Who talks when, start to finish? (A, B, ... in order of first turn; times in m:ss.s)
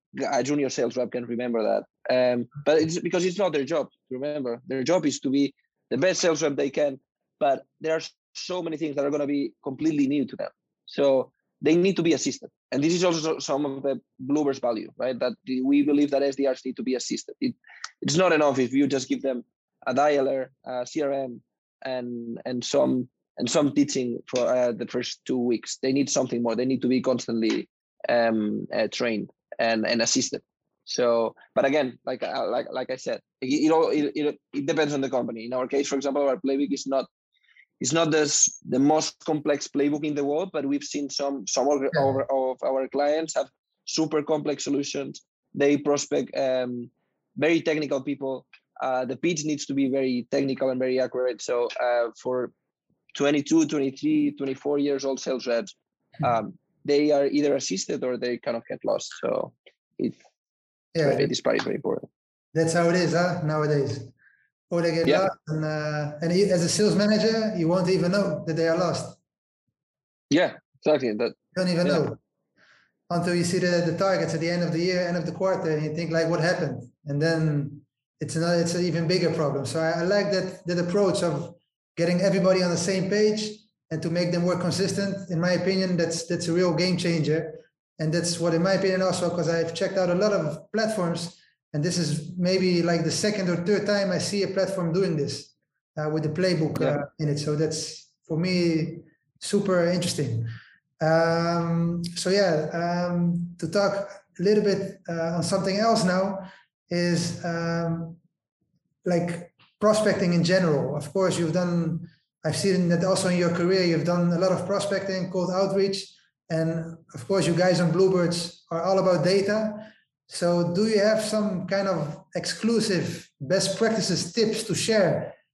0:00.2-0:37.1 A
0:37.8-0:52.5 A
0:53.1-1:00.2 A
1:00.9-1:01.3 B
1:01.0-1:02.1 A
1:02.5-1:04.1 B
1:04.7-1:09.2 B
1:10.3-1:12.0 A
1:11.5-1:12.2 B
1:13.1-1:48.2 B
1:49.0-2:05.4 B